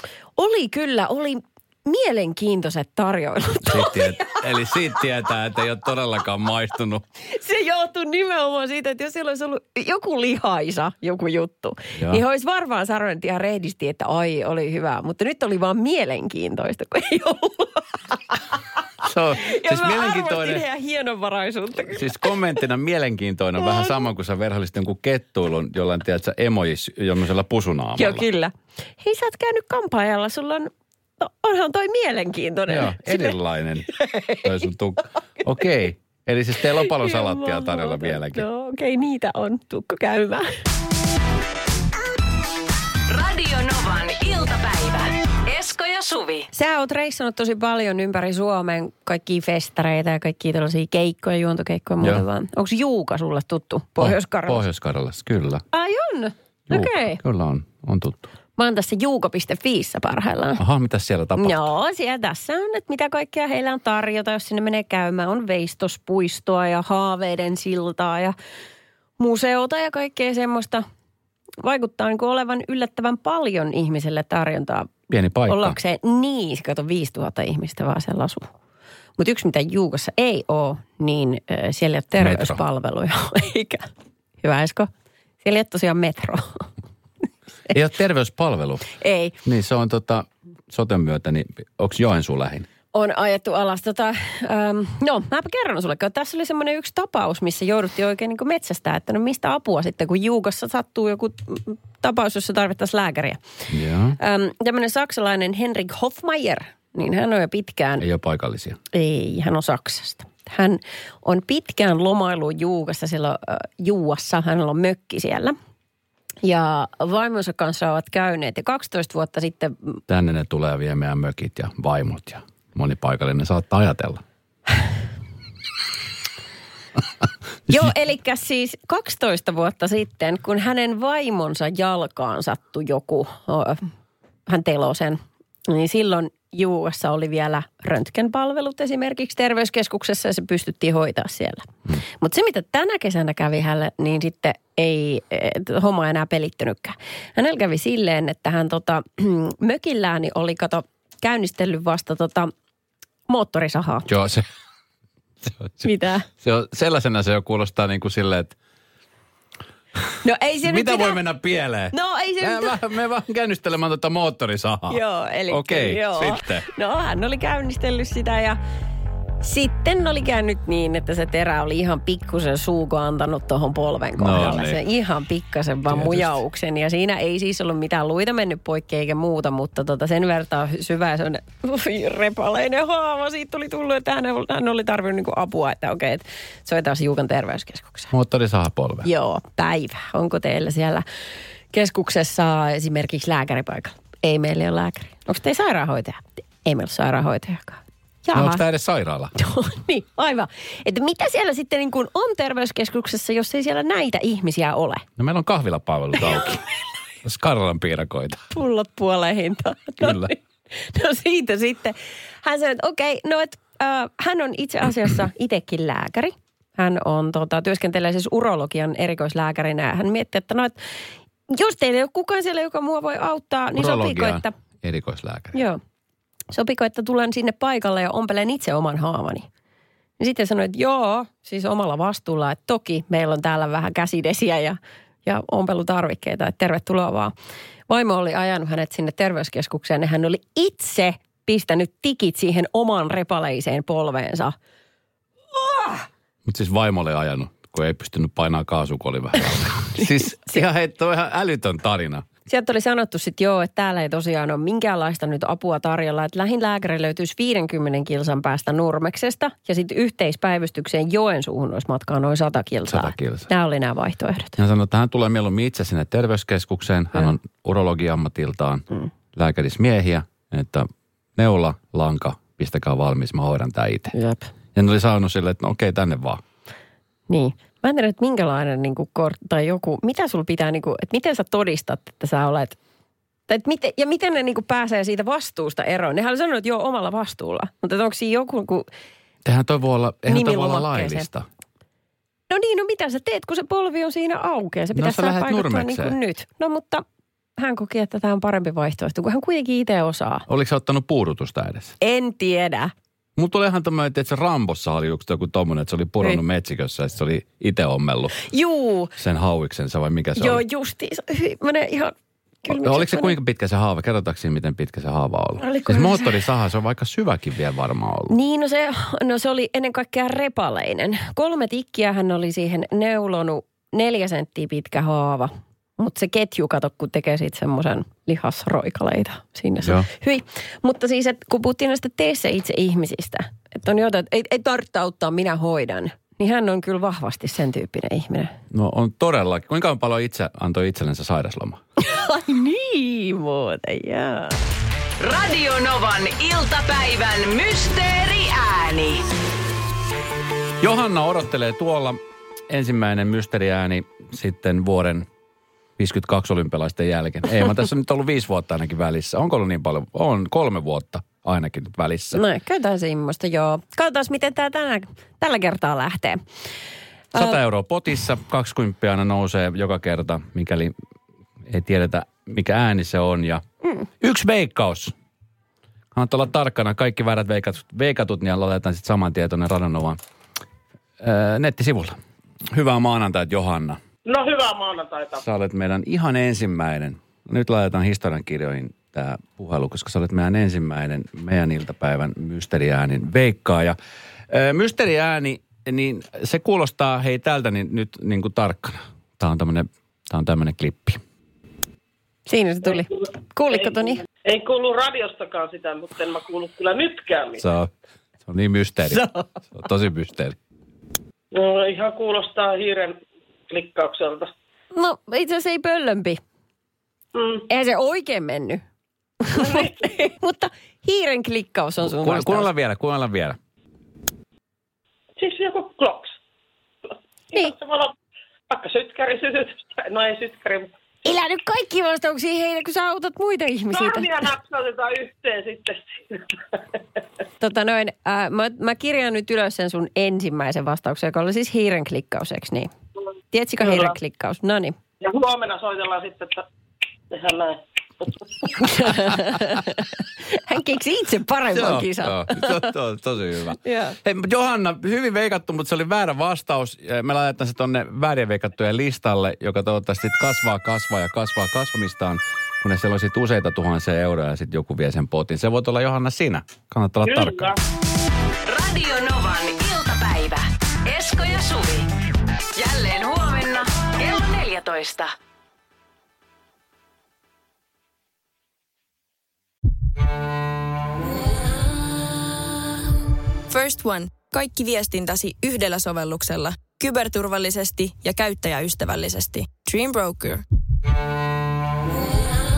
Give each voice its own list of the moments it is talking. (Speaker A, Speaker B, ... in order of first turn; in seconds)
Speaker A: 0.4-4.4, 7.3-18.6, 19.4-22.4, 23.6-24.0, 28.0-33.4, 33.9-34.5, 36.7-40.5, 46.5-54.6, 55.7-57.2, 58.6-60.6, 61.4-68.3, 69.2-70.8, 71.6-74.9, 75.5-78.5, 79.2-83.9, 84.4-84.9, 85.4-86.7, 89.0-89.3, 92.9-103.4, 104.2-108.0, 108.9-115.5, 116.4-120.0, 127.7-133.9, 134.5-152.5, 153.3-154.1, 155.8-156.3, 160.2-161.2, 161.9-162.8, 164.9-168.6, 169.4-188.1, 189.0-191.0, 191.7-198.6, 199.4-205.1, 208.5-220.8, 221.5-224.5, 225.5-225.8, 226.5-229.5, 230.2-237.3, 237.9-244.6, 245.6-246.1, 252.5-264.6, 274.1-274.5, 277.3-282.8, 283.5-288.9, 290.3-291.3, 292.5-297.0, 297.6-300.5, 302.0-302.9, 308.4-309.1, 310.4-313.4, 315.6-316.4, 318.3-338.5, 342.0-344.6, 362.3-366.4, 402.5-404.2, 409.1-409.4, 414.9-416.4, 417.7-418.8, 419.4-422.7, 431.2-434.4, 437.6-442.9, 443.5-445.0, 448.8-452.9, 453.8-454.2
Speaker B: 3.6-7.0, 12.0-12.2, 19.0-20.6, 21.9-28.2, 32.7-33.9, 34.4-38.5, 54.0-55.6, 56.7-58.3, 60.6-61.6, 75.1-75.8, 82.2-82.6, 87.7-88.9, 89.5-92.7, 103.7-104.2, 108.0-108.8, 120.1-124.2, 127.7-127.9, 154.1-154.5, 155.4-155.8, 156.4-158.6, 160.6-166.7, 174.2-174.8, 175.9-176.4, 188.1-189.1, 198.3-199.3, 205.2-206.6, 207.2-208.4, 210.0-210.3, 223.8-225.6, 246.4-252.3, 262.9-263.5, 264.6-274.1, 274.8-276.4, 289.4-291.5, 294.9-296.1, 300.5-301.9, 303.4-308.4, 309.2-310.6, 312.7-318.4, 329.8-330.1, 338.7-341.8, 350.8-355.3, 356.0-362.4, 367.4-370.9, 371.6-373.6, 374.2-375.1, 376.1-380.2, 381.2-382.2, 382.7-384.0, 385.4-394.0, 394.5-401.2, 407.6-407.9, 408.4-410.6, 422.0-423.6, 451.7-467.8
Speaker C: 43.1-46.5, 345.2-349.2, 468.6-472.1, 472.8-475.3
Speaker D: 384.3-385.4, 404.4-407.6, 411.5-413.2, 413.7-414.5, 417.4-417.6, 419.5-420.1, 425.4-426.4, 427.5-428.1, 428.7-430.9, 433.9-437.0, 443.8-444.1, 445.2-446.6, 447.3-449.3, 467.3-467.8
Speaker E: 483.7-490.6